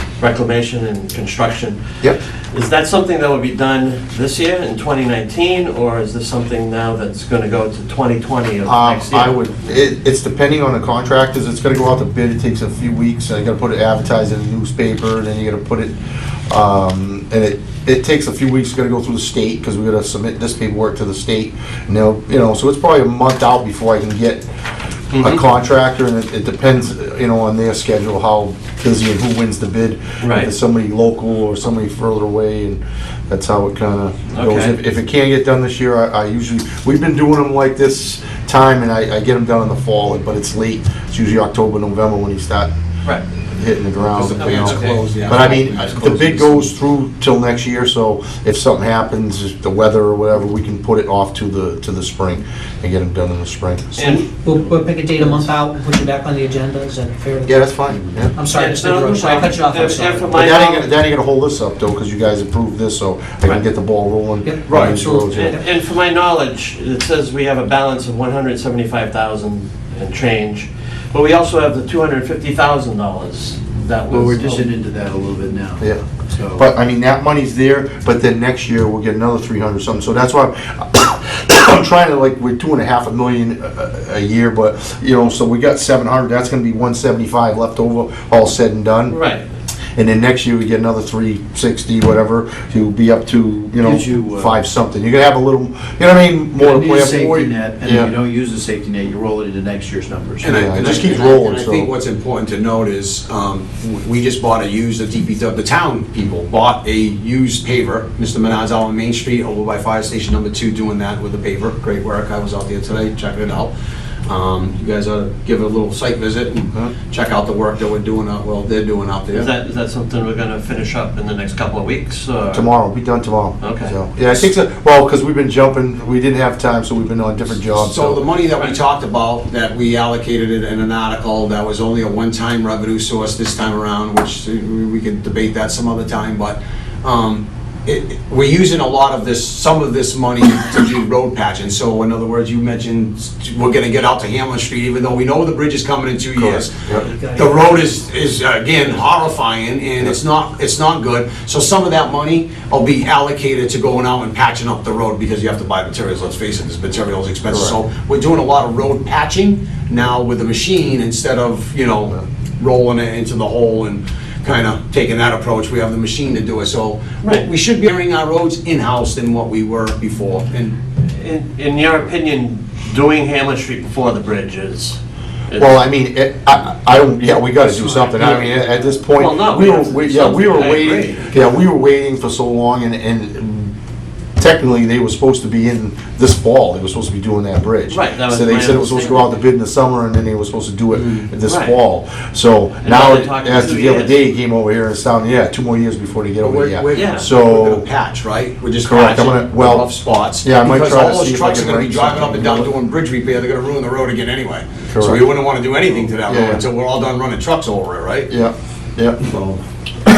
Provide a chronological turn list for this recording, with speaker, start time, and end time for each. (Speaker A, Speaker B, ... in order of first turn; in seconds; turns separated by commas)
Speaker A: 0.2-1.8, Speaker A: 2.5-9.4, Speaker B: 8.7-15.9, Speaker B: 16.5-24.4, Speaker A: 25.1-25.4, Speaker B: 25.1-42.7, Speaker A: 30.2-30.5, Speaker A: 34.3-34.8, Speaker B: 43.5-54.1, Speaker C: 44.1-46.8, Speaker A: 44.4-45.1, Speaker A: 54.0-54.7, Speaker D: 54.0-60.8, Speaker B: 57.5-58.3, Speaker E: 57.9-58.3, Speaker A: 58.5-60.9, Speaker B: 60.3-65.5, Speaker D: 64.5-65.6, Speaker C: 64.7-65.0, Speaker A: 65.3-74.7, Speaker E: 74.1-76.6, Speaker B: 76.5-89.2, Speaker A: 89.1-89.5, Speaker B: 90.0-98.1, Speaker E: 93.8-94.6, Speaker E: 96.6-100.5, Speaker C: 100.4-113.7, Speaker B: 100.5-101.9, Speaker C: 114.2-119.5, Speaker A: 119.3-122.7, Speaker B: 122.5-128.2, Speaker A: 123.6-123.9, Speaker C: 127.7-146.8, Speaker B: 146.3-147.1, Speaker D: 147.0-147.8, Speaker C: 147.3-170.8, Speaker B: 157.5-157.8, Speaker A: 171.0-175.8, Speaker B: 175.6-183.7, Speaker A: 178.2-178.5, Speaker A: 179.1-181.4, Speaker C: 180.7-181.2, Speaker B: 184.4-197.9, Speaker A: 187.9-189.3, Speaker C: 190.9-191.3, Speaker A: 191.4-191.8, Speaker A: 192.8-194.2, Speaker C: 196.4-208.3, Speaker A: 196.9-197.3, Speaker B: 198.8-202.7, Speaker B: 204.9-205.2, Speaker B: 206.2-206.6, Speaker B: 208.3-209.2, Speaker C: 209.2-209.6